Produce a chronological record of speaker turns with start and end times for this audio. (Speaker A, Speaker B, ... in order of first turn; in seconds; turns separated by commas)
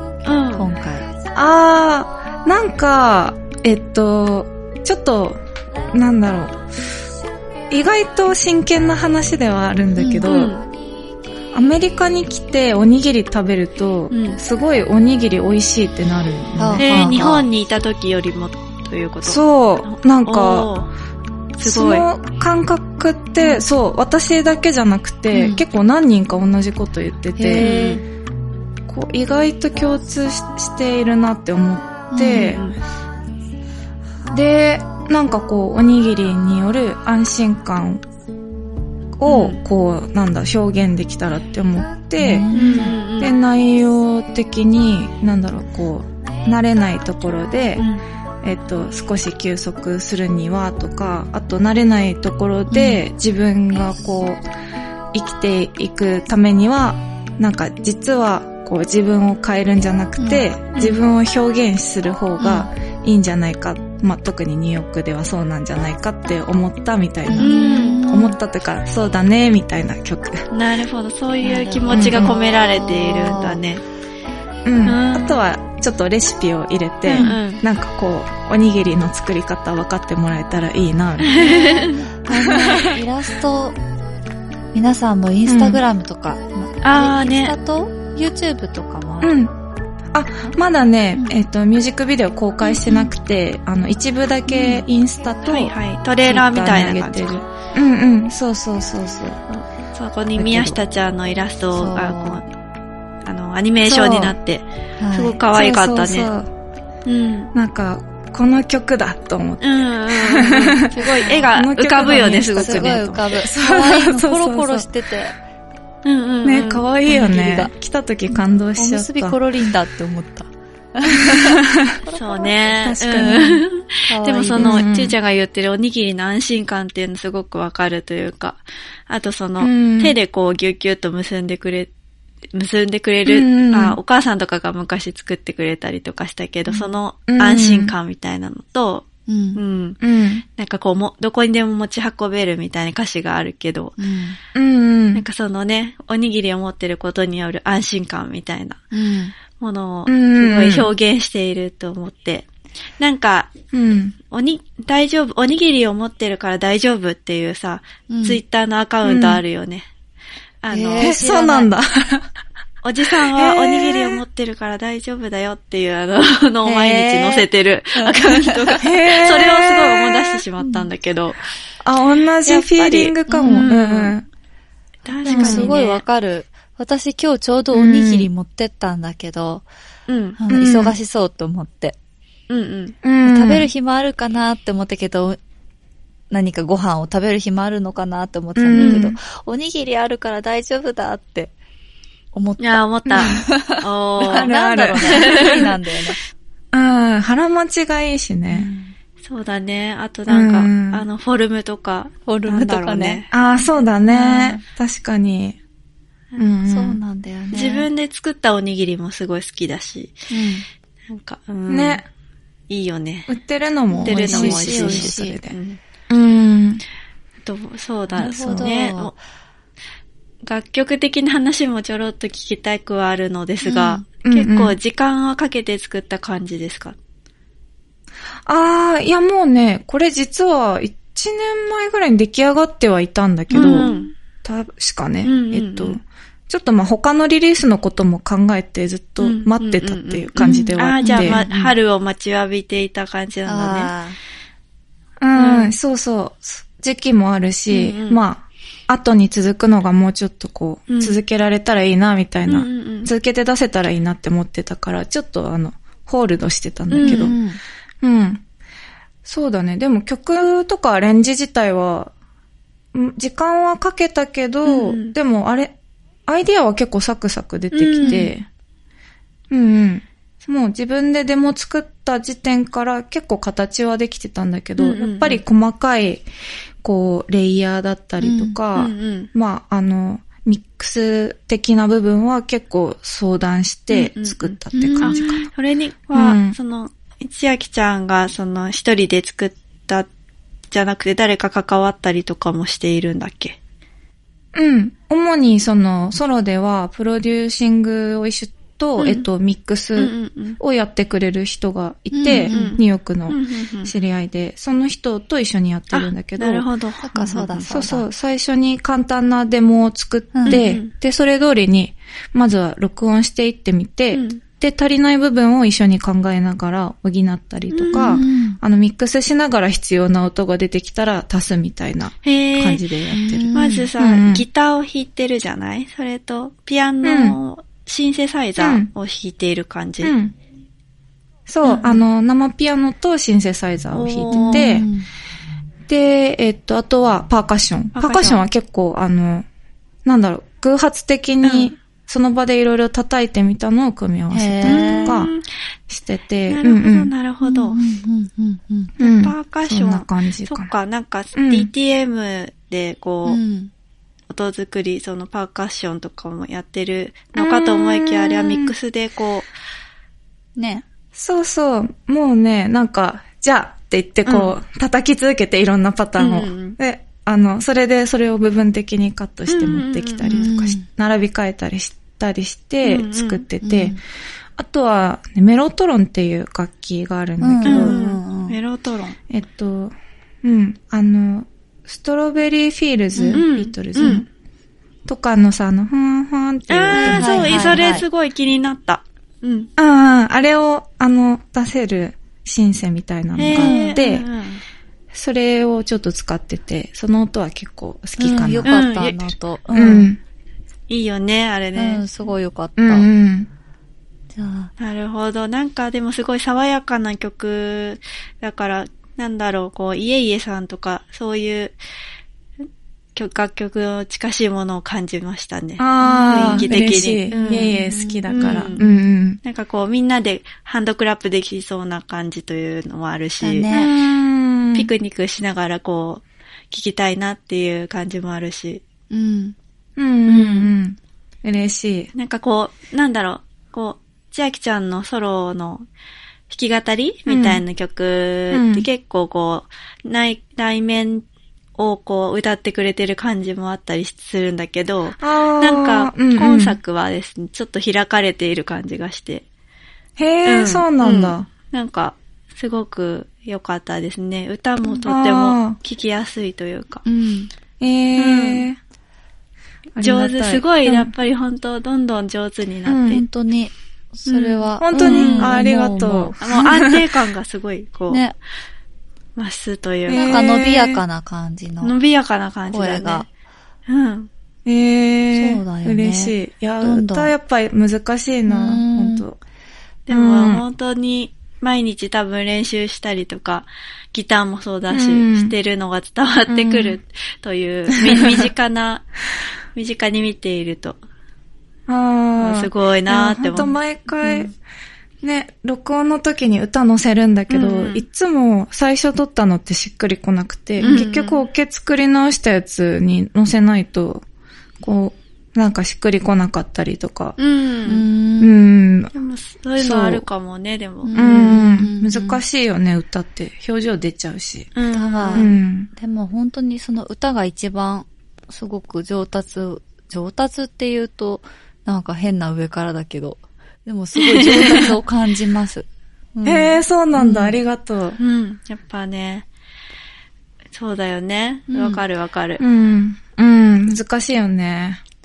Speaker A: 0.2-0.7, Speaker B: 0.5-1.1, Speaker C: 1.3-5.4, Speaker C: 5.9-6.6, Speaker C: 7.7-10.5, Speaker B: 9.9-10.3, Speaker A: 10.2-10.7, Speaker C: 11.5-17.5, Speaker A: 14.1-14.4, Speaker B: 16.6-17.3, Speaker A: 16.8-20.9, Speaker C: 19.2-20.7, Speaker A: 21.6-22.1, Speaker C: 21.6-27.7, Speaker B: 25.3-25.6, Speaker B: 27.4-28.0, Speaker A: 27.5-28.0, Speaker C: 28.9-32.6, Speaker B: 32.1-32.6, Speaker A: 32.3-32.8, Speaker C: 34.3-38.0, Speaker C: 39.2-42.5, Speaker A: 39.2-39.6, Speaker B: 42.2-43.0, Speaker A: 42.5-43.4, Speaker C: 43.2-47.8, Speaker A: 47.8-48.0, Speaker C: 48.4-54.4, Speaker B: 52.7-53.0, Speaker C: 55.1-70.5, Speaker B: 60.2-60.5, Speaker A: 60.7-61.0, Speaker B: 62.4-62.7, Speaker B: 67.3-68.4, Speaker A: 67.4-68.0, Speaker A: 70.5-73.8, Speaker B: 71.4-73.6, Speaker C: 71.9-72.3, Speaker C: 74.6-81.4, Speaker A: 74.8-75.4, Speaker A: 77.0-77.6, Speaker B: 77.1-77.4, Speaker A: 81.3-82.0, Speaker B: 81.5-83.8, Speaker C: 82.3-82.9, Speaker B: 84.7-89.3, Speaker C: 85.5-85.8, Speaker A: 86.8-87.5, Speaker C: 89.2-89.5, Speaker C: 90.1-99.4, Speaker A: 92.6-93.1, Speaker B: 94.5-94.8, Speaker A: 95.4-97.4, Speaker A: 99.5-102.5, Speaker C: 100.3-100.8, Speaker B: 101.7-102.4, Speaker A: 103.2-106.3, Speaker C: 103.8-104.3, Speaker B: 105.0-105.4, Speaker C: 105.5-106.5, Speaker A: 107.0-107.5, Speaker C: 107.5-111.0, Speaker A: 109.6-113.0, Speaker B: 110.9-111.5, Speaker C: 111.5-114.9, Speaker B: 112.5-115.4, Speaker A: 116.0-116.9, Speaker C: 116.4-119.4, Speaker B: 117.0-117.7, Speaker B: 118.8-123.5, Speaker C: 121.1-121.6, Speaker A: 122.1-131.9, Speaker C: 122.8-123.6, Speaker B: 124.1-124.9, Speaker C: 124.5-125.1, Speaker C: 129.6-130.2, Speaker A: 132.5-140.0, Speaker C: 133.2-134.0, Speaker B: 136.7-136.9, Speaker C: 137.3-137.9, Speaker B: 139.3-139.6, Speaker C: 140.0-140.4, Speaker A: 140.6-143.9, Speaker B: 144.0-144.4, Speaker C: 144.5-145.2, Speaker A: 145.1-148.8, Speaker B: 148.9-149.3, Speaker A: 149.6-152.4, Speaker C: 150.1-150.9, Speaker A: 153.0-153.5, Speaker C: 153.7-154.2, Speaker A: 154.3-159.9, Speaker B: 158.1-158.4, Speaker C: 159.0-159.4, Speaker A: 160.6-161.2, Speaker B: 160.7-161.7, Speaker C: 161.0-162.3, Speaker A: 162.8-171.4, Speaker C: 163.3-164.2, Speaker B: 166.6-168.8, Speaker C: 168.8-170.4, Speaker B: 170.6-170.9, Speaker C: 171.8-174.3, Speaker A: 172.4-174.2, Speaker B: 173.3-173.7, Speaker A: 175.0-176.0, Speaker B: 175.2-179.6, Speaker C: 175.2-175.7, Speaker C: 177.7-178.3, Speaker A: 180.1-181.0, Speaker B: 180.4-181.9, Speaker A: 182.5-182.9, Speaker C: 183.0-183.7, Speaker B: 183.2-185.4, Speaker B: 186.3-191.5, Speaker C: 188.6-189.2, Speaker A: 188.7-189.1, Speaker B: 192.3-196.2, Speaker A: 192.6-195.7, Speaker C: 193.1-193.5, Speaker C: 194.2-195.7, Speaker C: 196.7-198.7, Speaker B: 198.5-198.9, Speaker A: 199.2-203.3, Speaker C: 200.3-201.1, Speaker B: 202.2-203.2, Speaker C: 203.3-205.6, Speaker B: 204.1-204.6, Speaker C: 206.4-207.0, Speaker B: 206.7-207.9, Speaker A: 207.5-210.2, Speaker B: 210.3-210.6, Speaker A: 211.1-212.0, Speaker C: 211.7-212.1, Speaker A: 212.7-213.3, Speaker C: 213.3-215.6, Speaker B: 213.9-215.4, Speaker A: 214.0-215.8, Speaker C: 216.1-216.8, Speaker A: 217.4-219.1, Speaker B: 218.2-219.2, Speaker A: 220.4-226.9, Speaker B: 223.6-224.0, Speaker C: 224.2-224.8, Speaker C: 228.4-233.9, Speaker A: 233.5-234.1, Speaker B: 233.6-234.0, Speaker C: 234.4-241.4, Speaker A: 235.2-236.0, Speaker A: 239.2-243.9, Speaker B: 240.4-241.7, Speaker B: 243.4-244.2, Speaker C: 245.2-257.4, Speaker A: 245.3-245.7, Speaker A: 247.7-248.2, Speaker A: 250.9-251.2, Speaker A: 252.5-253.1, Speaker A: 256.9-257.3, Speaker B: 257.0-257.6, Speaker C: 258.0-258.4, Speaker C: 259.2-262.1, Speaker C: 262.9-265.7, Speaker A: 264.6-265.1, Speaker C: 266.3-268.5, Speaker A: 267.7-268.3, Speaker B: 268.0-268.3, Speaker C: 269.5-276.2, Speaker A: 274.8-275.4, Speaker C: 276.8-285.4, Speaker B: 278.2-278.6, Speaker A: 278.7-279.3, Speaker A: 283.9-290.1, Speaker B: 284.7-285.4, Speaker C: 286.1-286.6, Speaker A: 290.7-293.6, Speaker C: 294.5-306.6, Speaker A: 299.0-299.2, Speaker A: 299.9-300.6, Speaker B: 302.1-302.8, Speaker A: 302.5-303.9, Speaker A: 305.9-307.7, Speaker B: 307.0-308.1, Speaker C: 307.7-324.4, Speaker B: 310.3-310.6, Speaker A: 310.5-310.9, Speaker A: 314.1-314.4, Speaker A: 317.7-318.2, Speaker B: 317.9-318.6, Speaker A: 322.2-323.0, Speaker B: 323.1-323.9, Speaker A: 323.5-330.1, Speaker C: 327.0-327.4, Speaker C: 328.6-328.9, Speaker C: 330.0-330.3, Speaker C: 331.5-334.9, Speaker A: 331.6-332.0, Speaker A: 333.9-334.8, Speaker B: 334.3-335.1, Speaker C: 335.9-339.4, Speaker A: 337.9-338.4, Speaker C: 340.0-345.3, Speaker A: 341.4-341.8, Speaker B: 344.3-345.3, Speaker A: 344.6-345.4, Speaker C: 345.9-347.1, Speaker A: 346.5-347.8, Speaker B: 347.4-348.9, Speaker C: 349.0-350.7, Speaker A: 349.0-353.4, Speaker C: 351.3-351.7, Speaker B: 353.2-353.7, Speaker A: 354.3-359.5, Speaker C: 357.4-358.7, Speaker B: 360.6-360.8, Speaker C: 361.1-374.0, Speaker A: 364.2-364.5, Speaker A: 366.2-366.8, Speaker A: 369.5-370.5, Speaker B: 370.2-370.9, Speaker A: 372.8-373.5, Speaker B: 373.6-374.0, Speaker C: 374.6-378.0, Speaker B: 377.4-378.6, Speaker A: 377.6-379.2, Speaker C: 379.3-384.3, Speaker B: 383.1-383.4, Speaker A: 383.3-384.3, Speaker C: 385.1-387.9, Speaker A: 386.7-389.7, Speaker B: 386.9-388.1, Speaker C: 389.8-394.2, Speaker A: 393.3-394.6, Speaker B: 393.5-394.0, Speaker C: 395.1-398.7, Speaker B: 398.2-400.1, Speaker A: 398.6-399.3, Speaker C: 399.7-400.2, Speaker A: 400.9-402.1, Speaker B: 401.7-403.1, Speaker C: 402.8-403.5, Speaker B: 404.3-404.7, Speaker A: 404.8-411.8, Speaker A: 413.1-418.8, Speaker C: 415.8-419.4, Speaker B: 416.0-419.0, Speaker A: 419.4-423.7, Speaker B: 423.4-423.9, Speaker C: 423.7-424.9, Speaker A: 424.7-428.8, Speaker B: 429.1-429.5, Speaker C: 430.0-432.1, Speaker A: 430.2-430.7, Speaker A: 432.1-435.9, Speaker A: 436.5-441.2, Speaker C: 437.3-437.6, Speaker C: 438.5-438.9, Speaker A: 441.8-449.4, Speaker C: 445.2-446.8, Speaker C: 450.2-451.5, Speaker A: 450.4-457.0, Speaker C: 455.0-455.8, Speaker B: 457.0-457.5, Speaker C: 457.8-458.8, Speaker A: 458.1-458.7, Speaker C: 459.9-461.1, Speaker A: 460.0-463.2, Speaker C: 462.9-463.2, Speaker B: 463.1-466.6, Speaker A: 464.2-465.6, Speaker C: 464.8-467.1, Speaker A: 466.4-468.2, Speaker B: 468.1-468.3, Speaker A: 469.4-470.5, Speaker C: 470.1-471.0, Speaker B: 470.1-471.9, Speaker A: 471.8-473.3, Speaker B: 472.7-473.2, Speaker A: 473.9-474.3, Speaker C: 474.6-479.4, Speaker B: 475.3-477.3, Speaker B: 478.5-479.2, Speaker A: 480.1-489.1, Speaker C: 480.1-480.6, Speaker C: 484.9-485.5, Speaker C: 486.5-487.0, Speaker C: 488.0-488.4, Speaker A: 489.7-491.0, Speaker C: 491.9-494.5, Speaker A: 492.4-494.5, Speaker C: 495.2-504.2, Speaker A: 497.5-498.0, Speaker A: 500.8-501.5, Speaker C: 504.8-507.4, Speaker A: 507.4-508.0, Speaker B: 507.8-508.6, Speaker C: 508.4-509.1, Speaker A: 509.1-511.6, Speaker C: 509.8-510.2, Speaker B: 511.0-512.4, Speaker C: 511.1-514.7, Speaker A: 514.7-515.5, Speaker B: 514.9-527.6, Speaker C: 515.3-515.9, Speaker A: 524.1-524.8, Speaker C: 524.6-524.8, Speaker C: 526.4-528.2, Speaker A: 528.2-529.5, Speaker A: 530.7-532.6, Speaker B: 531.7-532.0, Speaker C: 532.6-535.0